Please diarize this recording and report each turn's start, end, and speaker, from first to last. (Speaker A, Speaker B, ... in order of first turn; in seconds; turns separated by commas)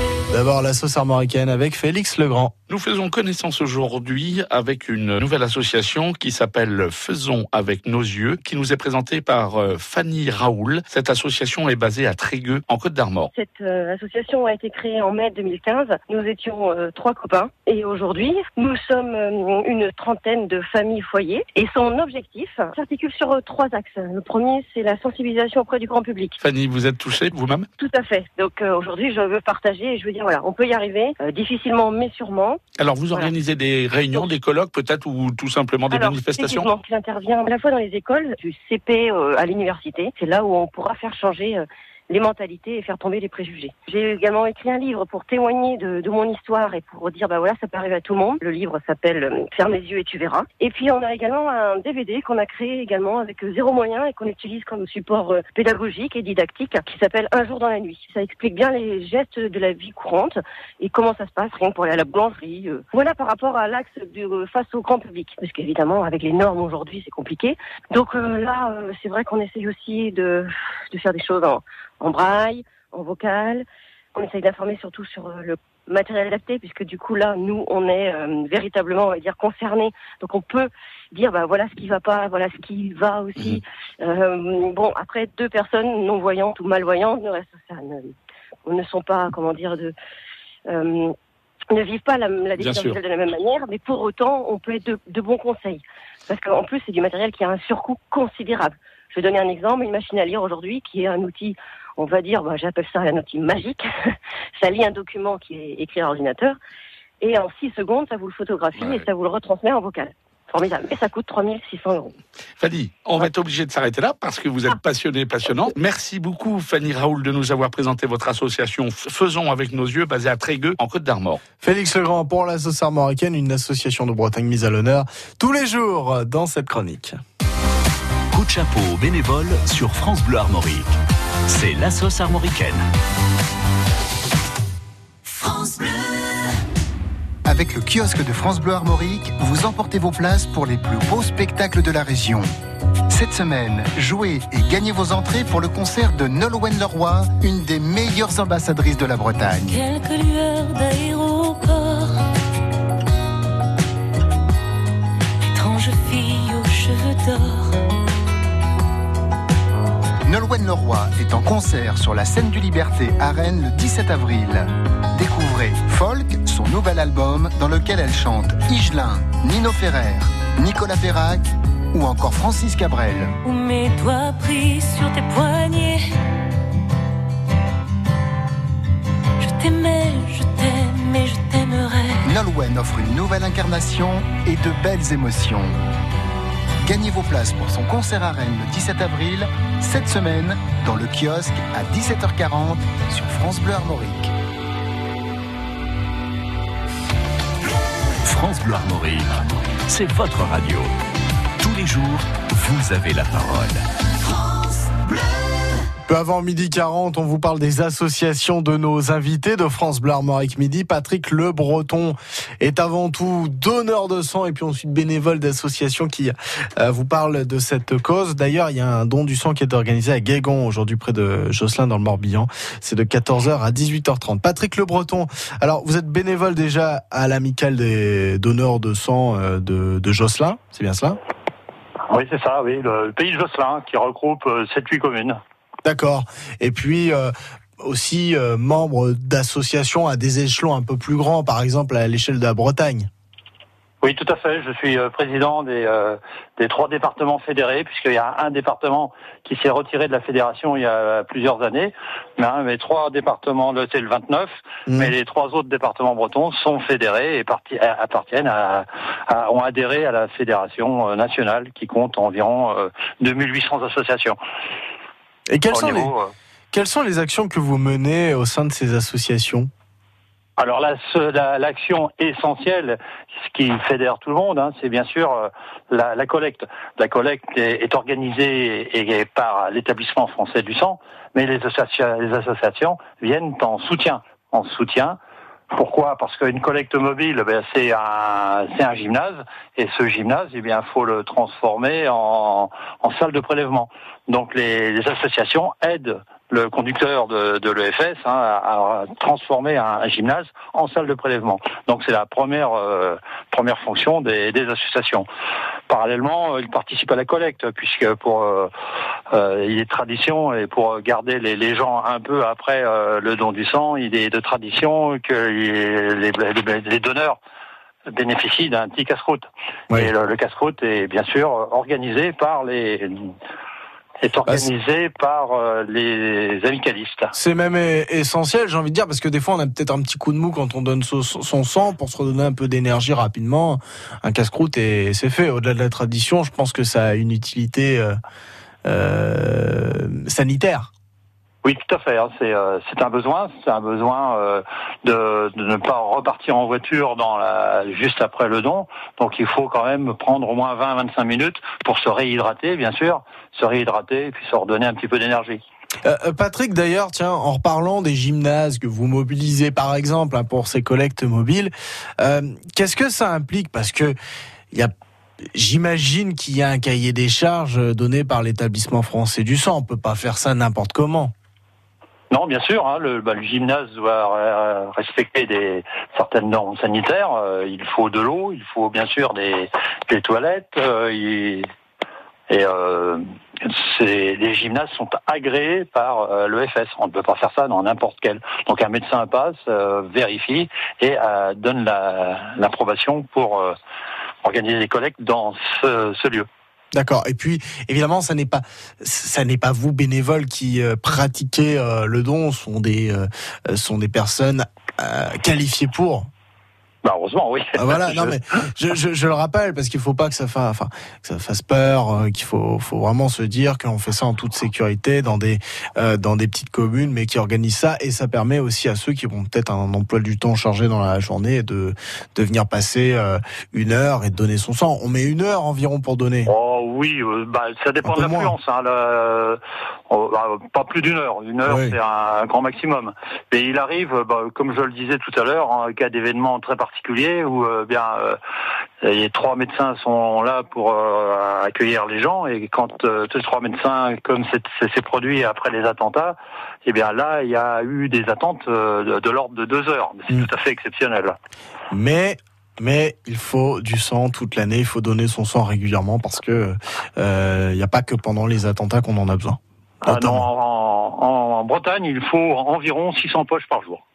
Speaker A: 0.3-2.5, Speaker B: 2.7-13.3, Speaker C: 13.3-26.4, Speaker B: 26.4-27.7, Speaker C: 27.8-32.6, Speaker B: 32.8-36.7, Speaker C: 35.9-88.1, Speaker C: 88.7-89.9, Speaker C: 90.7-91.1, Speaker C: 91.7-103.9, Speaker B: 92.6-93.0, Speaker C: 104.6-106.6, Speaker C: 107.2-112.2, Speaker B: 108.8-109.0, Speaker B: 112.6-121.4, Speaker A: 121.6-127.2, Speaker D: 128.3-130.9, Speaker D: 131.5-132.8, Speaker E: 137.4-142.5, Speaker E: 143.1-149.8, Speaker F: 149.7-152.2, Speaker F: 155.5-157.8, Speaker E: 160.2-173.3, Speaker F: 173.4-176.1, Speaker F: 179.4-182.3, Speaker E: 182.2-185.8, Speaker E: 186.8-194.3, Speaker D: 198.2-200.9, Speaker D: 201.6-203.8, Speaker A: 206.1-231.2, Speaker G: 232.1-235.4, Speaker A: 235.8-243.1, Speaker G: 244.0-264.4, Speaker A: 254.9-255.1, Speaker A: 265.5-266.1, Speaker G: 265.7-266.3, Speaker A: 266.7-269.7, Speaker G: 270.6-285.2, Speaker G: 285.7-305.2, Speaker G: 305.9-308.7, Speaker G: 309.3-317.4, Speaker G: 318.1-323.3, Speaker G: 324.2-327.3, Speaker A: 327.4-338.2, Speaker A: 338.9-340.9, Speaker G: 341.6-355.6, Speaker A: 356.0-364.1, Speaker A: 364.7-371.3, Speaker G: 372.3-381.7, Speaker G: 382.5-393.8, Speaker G: 394.4-396.5, Speaker A: 396.9-406.3, Speaker G: 407.0-408.4, Speaker A: 407.8-426.5, Speaker G: 426.4-438.4, Speaker A: 428.0-428.5, Speaker A: 431.6-431.9, Speaker G: 439.0-451.4, Speaker A: 451.9-460.4, Speaker G: 460.0-464.0